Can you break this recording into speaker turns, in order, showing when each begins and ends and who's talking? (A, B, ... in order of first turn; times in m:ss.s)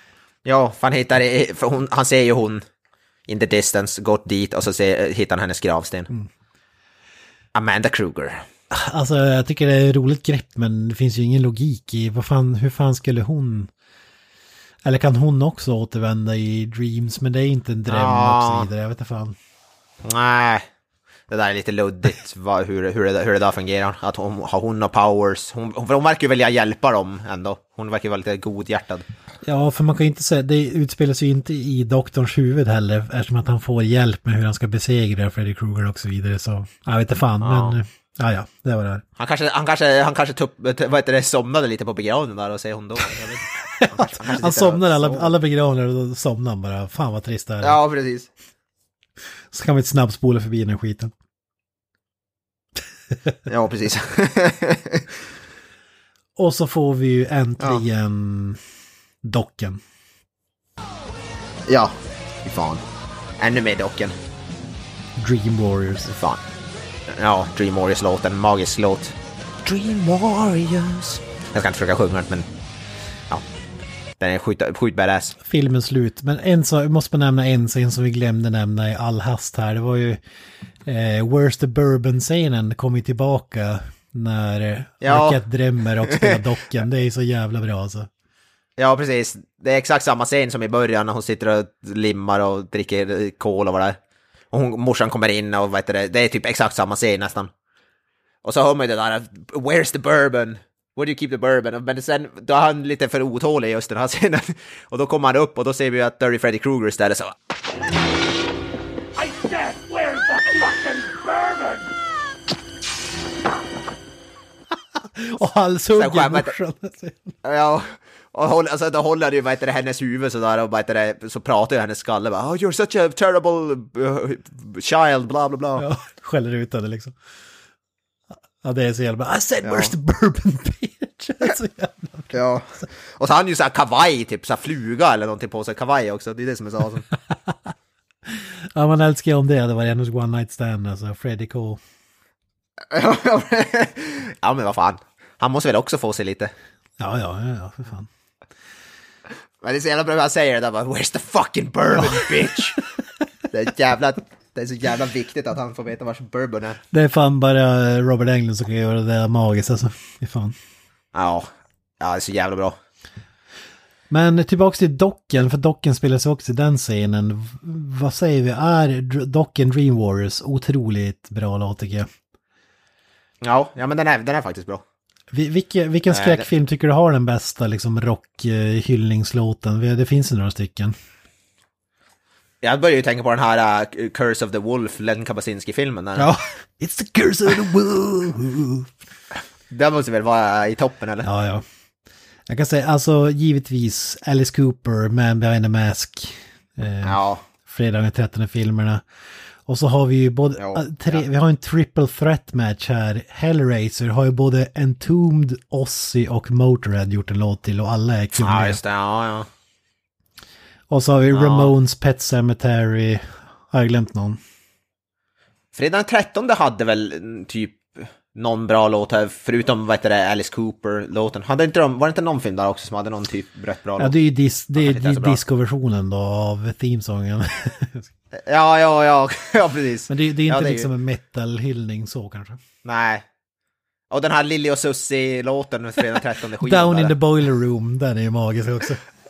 0:00.4-0:02.6 A
0:03.3-0:06.1 A
0:07.5-0:08.4 A
0:08.7-0:13.7 B
0:14.8-0:19.4 B
0:17.9-0:18.7 A
0:20.0-0:20.7 A
0:21.3-0:29.0 A
0:29.4-0:39.0 B
0:37.4-0:37.8 A
0:39.2-0:45.3 A
0:43.6-0:47.8 B
0:47.6-0:48.3 A
0:49.5-0:51.1 B
0:53.4-0:55.1 A
0:56.4-0:58.6 B
0:59.2-0:59.8 B
1:01.7-1:02.8 A
1:03.4-1:04.1 A
1:05.2-1:06.1 B
1:06.1-1:06.4 A
1:07.1-1:12.5 A
1:14.2-1:15.3 A
1:15.4-1:20.2 B
1:20.8-1:28.1 B
1:25.0-1:25.4 A
1:26.0-1:26.4 A
1:28.8-1:34.0 A
1:34.5-1:37.5 A
1:38.4-1:47.3 A
1:49.2-1:51.8 C
1:55.2-1:57.3 B
1:55.9-1:56.5 A
1:57.4-2:05.8 A
2:05.8-2:07.1 B
2:08.6-2:12.3 B
2:09.6-2:09.9 A
2:12.3-2:17.0 A
2:18.2-2:21.8 B
2:22.9-2:26.5 A
2:27.0-2:28.1 B
2:29.6-2:32.8 A
2:32.0-2:32.8 B
2:33.5-2:36.8 A
2:36.9-2:40.6 B
2:41.1-2:42.8 A
2:44.1-2:52.1 B
2:53.4-2:54.8 A
2:55.3-3:00.9 B
2:56.1-2:56.4 A
3:02.6-3:06.3 A
3:06.2-3:08.9 B
3:09.7-3:11.3 A
3:11.2-3:11.6 B
3:12.5-3:19.0 B
3:17.0-3:17.4 A
3:19.6-3:28.8 B
3:20.6-3:21.2 A
3:28.4-3:29.5 A
3:30.9-3:34.4 B
3:31.3-3:31.7 A
3:35.7-3:44.1 A
3:44.0-3:48.1 B
3:44.8-3:45.4 A
3:48.3-3:50.9 A
3:50.1-3:52.6 B
3:52.8-3:53.2 A
3:54.1-3:57.2 A
3:56.6-3:59.0 B